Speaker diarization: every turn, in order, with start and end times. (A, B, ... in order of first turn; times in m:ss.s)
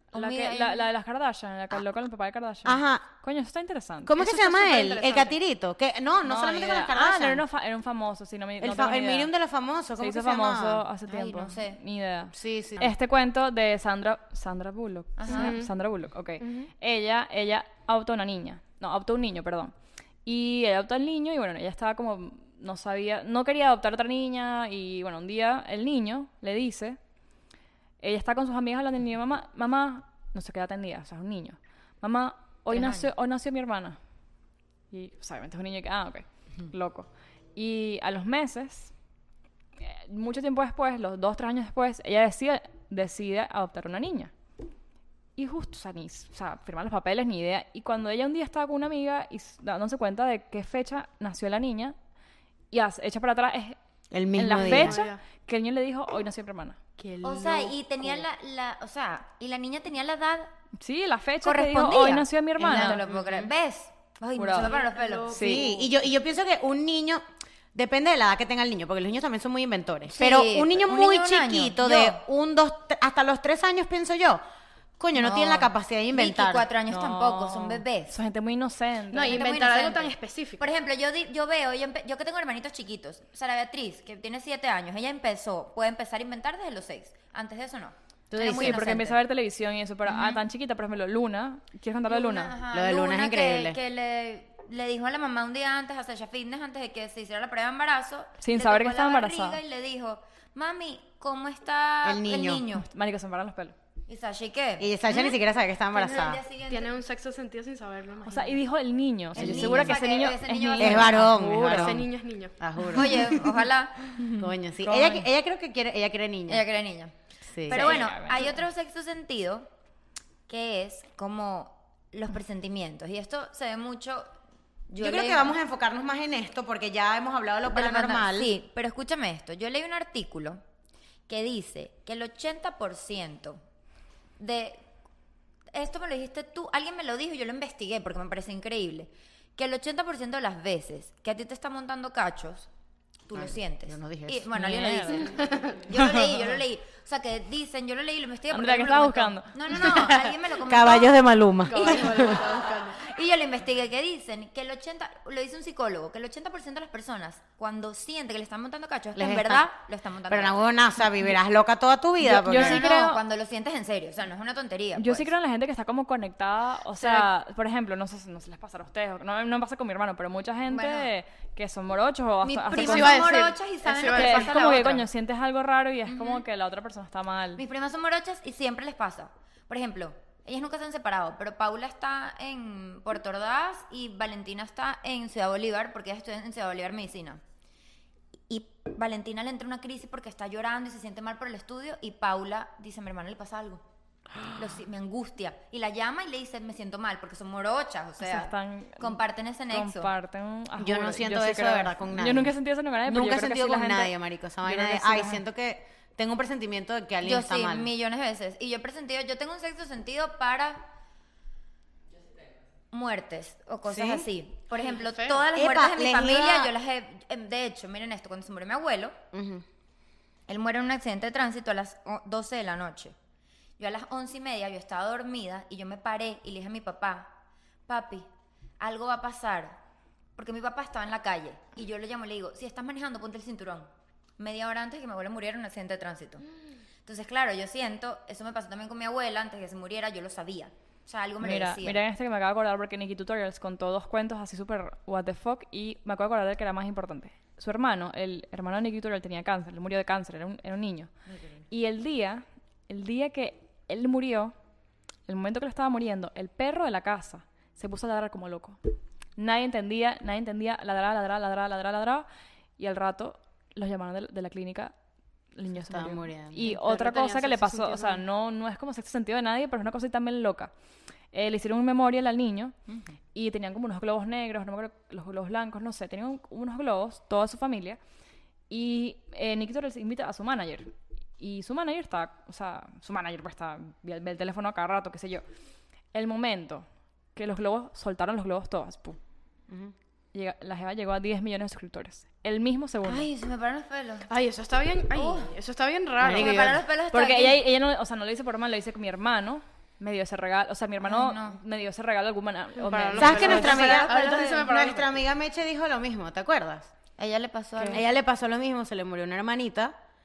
0:00.1-0:00.9 A
0:00.1-0:04.2 B
0:02.6-0:03.1 C
0:04.0-0:07.4 C
0:04.2-0:05.4 D
0:06.2-0:09.3 B
0:08.6-0:10.8 C
0:10.0-0:19.7 B
0:11.1-0:11.8 A
0:12.3-0:13.0 C
0:15.2-0:15.6 A
0:15.3-0:15.7 D
0:16.4-0:16.7 D
0:20.2-0:27.0 B
0:28.0-0:34.0 B
0:32.7-0:33.1 A
0:34.9-0:38.9 B
0:39.8-0:44.3 B
0:45.4-0:52.0 B
0:52.7-0:53.8 B
0:54.1-0:55.0 C
0:54.4-0:56.8 B
0:54.5-0:55.2 D
0:57.0-0:58.2 D
0:57.2-1:00.5 A
1:00.8-1:03.0 B
1:01.4-1:05.6 A
1:02.6-1:03.5 C
1:04.4-1:04.7 B
1:04.5-1:05.9 D
1:05.3-1:05.6 B
1:05.4-1:07.2 C
1:07.7-1:14.4 C
1:10.1-1:12.2 A
1:15.0-1:16.7 C
1:15.2-1:18.1 A
1:16.9-1:19.5 B
1:19.1-1:20.7 D
1:19.2-1:29.1 A
1:28.3-1:29.2 C
1:28.4-1:32.6 B
1:32.1-1:42.9 A
1:32.7-1:33.8 C
1:38.4-1:39.6 B
1:42.0-1:42.6 C
1:42.7-1:43.8 B
1:44.1-1:45.3 A
1:44.8-1:46.4 C
1:45.9-1:46.9 A
1:46.7-1:48.6 D
1:48.2-1:52.1 B
1:49.4-1:50.0 C
1:49.4-1:51.3 A
1:50.8-1:52.0 C
1:51.7-1:52.6 D
1:52.6-1:53.6 C
1:52.8-1:54.5 A
1:54.4-1:56.6 C
1:54.8-1:55.2 B
1:56.5-1:57.1 A
1:57.5-1:58.0 C
1:57.7-1:59.7 A
1:57.7-1:58.5 B
2:00.5-2:04.3 A
2:04.9-2:05.6 A
2:05.0-2:08.5 C
2:07.7-2:10.6 A
2:11.3-2:13.6 A
2:14.4-2:14.8 A
2:15.7-2:22.7 A
2:23.3-2:31.2 A
2:23.3-2:24.5 C
2:24.5-2:25.4 B
2:26.0-2:26.2 B
2:28.5-2:29.5 B
2:29.8-2:32.5 C
2:31.7-2:33.0 D
2:31.7-2:40.7 A
2:39.2-2:39.7 C
2:40.3-2:42.9 C
2:42.2-2:43.2 B
2:42.4-2:45.3 A
2:45.0-2:53.3 B
2:47.0-2:47.3 D
2:50.7-2:51.1 A
2:52.4-2:55.1 A
2:52.7-2:54.6 D
2:54.1-2:57.6 B
2:56.1-2:56.4 A
2:57.6-3:07.4 A
3:08.5-3:13.8 A
3:14.6-3:20.1 A
3:18.2-3:19.2 B
3:19.7-3:25.4 B
3:20.8-3:27.9 C
3:27.2-3:30.9 A
3:32.9-3:39.2 A
3:33.9-3:34.3 C
3:34.7-3:35.5 D
3:35.5-3:36.7 C
3:39.3-3:39.6 C
3:40.5-3:43.2 A
3:43.8-3:47.3 A
3:47.9-3:48.3 A
3:48.8-3:49.8 A
3:50.4-3:56.4 A
3:57.1-4:02.0 A
4:01.4-4:11.1 B
4:11.7-4:14.5 B
4:15.3-4:18.8 B
4:19.4-4:22.3 B
4:22.8-4:24.9 B
4:25.5-4:30.7 B
4:25.9-4:26.6 C
4:26.6-4:28.2 D
4:31.3-4:32.8 B
4:33.3-4:38.0 B
4:38.7-4:45.4 B
4:46.1-4:49.2 B
4:49.7-4:49.9 C
4:50.3-4:53.3 B
4:53.0-4:54.3 A
4:54.3-4:56.8 D
4:55.1-4:55.5 A
4:56.2-4:56.7 C
4:56.2-4:57.6 A
4:57.1-5:04.1 B
5:01.0-5:01.6 A
5:02.8-5:05.1 D
5:03.2-5:06.9 C
5:07.2-5:08.0 A
5:07.9-5:10.0 C